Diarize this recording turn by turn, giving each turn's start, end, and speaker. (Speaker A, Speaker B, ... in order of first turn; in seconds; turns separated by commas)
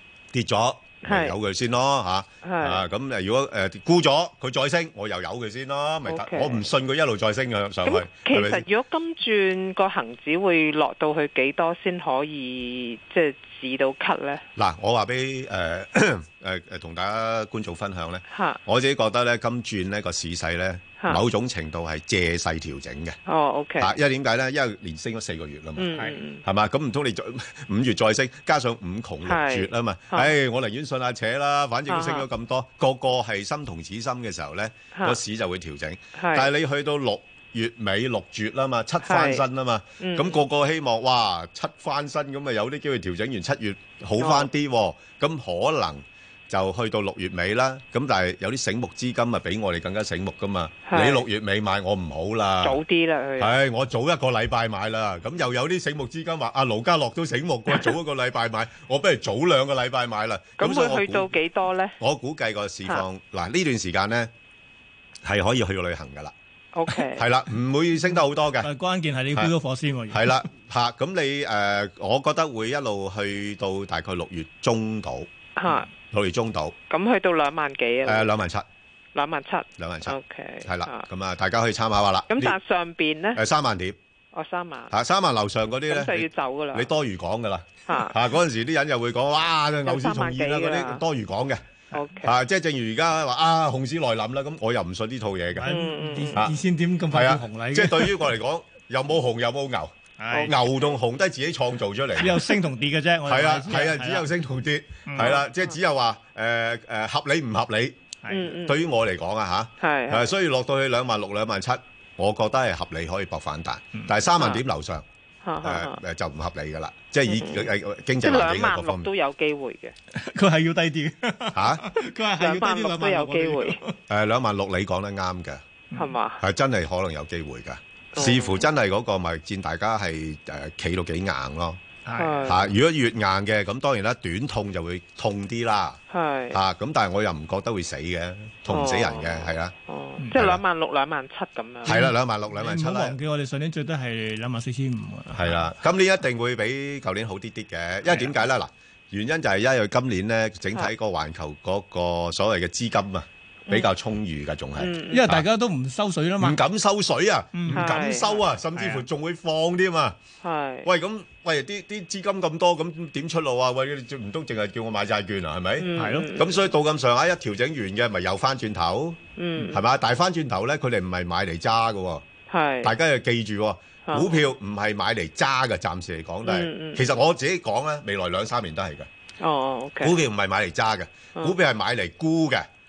Speaker A: 0.3-8.6, Speaker B: 1.0-1.4, Speaker B: 2.4-2.9, Speaker B: 6.1-6.6, Speaker B: 7.8-14.4, Speaker A: 14.6-23.2, Speaker B: 18.3-18.6, Speaker B: 23.3-24.0, Speaker A: 23.8-52.8, Speaker B: 25.8-26.4, Speaker B: 29.2-30.3, Speaker B: 31.9-32.3, Speaker B: 34.9-35.2, Speaker B: 36.2-36.5, Speaker B: 39.0-39.4, Speaker B: 40.0-40.5, Speaker B: 44.2-44.5, Speaker B: 50.9-51.2, Speaker B: 52.6-53.6, Speaker A: 53.4-61.3, Speaker B: 60.6-62.0, Speaker A: 62.0-64.3, Speaker A: 65.2-66.3, Speaker B: 66.8-67.3, Speaker A: 66.9-68.7, Speaker C: 68.6-70.5, Speaker A: 70.1-75.3, Speaker B: 75.6-75.9, Speaker A: 75.9-76.8, Speaker B: 76.9-78.3, Speaker A: 78.0-78.7, Speaker B: 79.2-81.1, Speaker A: 79.8-82.6, Speaker B: 82.3-83.4, Speaker A: 83.3-84.0, Speaker B: 84.3-84.9, Speaker A: 84.9-91.6, Speaker B: 85.9-86.9, Speaker B: 87.9-88.2, Speaker B: 89.8-91.0, Speaker B: 91.9-92.3, Speaker A: 92.2-95.7, Speaker C: 95.6-98.2, Speaker B: 95.7-96.5, Speaker A: 97.1-102.6, Speaker C: 100.2-100.5, Speaker C: 102.2-104.3, Speaker A: 103.3-108.0, Speaker C: 105.1-105.4, Speaker C: 108.2-108.5, Speaker B: 108.3-108.8, Speaker A: 108.6-115.0, Speaker B: 109.8-110.3, Speaker B: 114.4-114.6, Speaker B: 115.4-116.0, Speaker A: 115.6-119.1, Speaker B: 117.3-119.9, Speaker C: 120.2-124.0, Speaker A: 121.5-121.8, Speaker B: 122.4-123.8, Speaker A: 124.1-125.6, Speaker B: 125.9-126.4, Speaker A: 126.4-131.8, Speaker B: 128.1-128.7, Speaker C: 132.1-132.5, Speaker B: 132.2-132.7, Speaker A: 132.5-136.0, Speaker B: 136.1-136.6, Speaker A: 136.5-139.7, Speaker B: 138.7-142.0, Speaker A: 140.3-140.6, Speaker A: 141.8-143.2, Speaker C: 141.9-145.7, Speaker A: 145.3-155.4, Speaker B: 154.8-155.3, Speaker C: 155.1-156.6, Speaker A: 156.4-160.2, Speaker C: 157.5-157.9, Speaker B: 157.7-158.4, Speaker C: 158.8-159.1, Speaker B: 160.4-160.9, Speaker A: 160.8-172.3, Speaker B: 165.8-166.6, Speaker C: 166.0-166.3, Speaker B: 169.4-169.8, Speaker B: 172.5-172.9, Speaker A: 172.8-179.1, Speaker B: 174.1-174.4, Speaker B: 176.4-177.1, Speaker B: 179.4-180.2, Speaker A: 180.0-182.7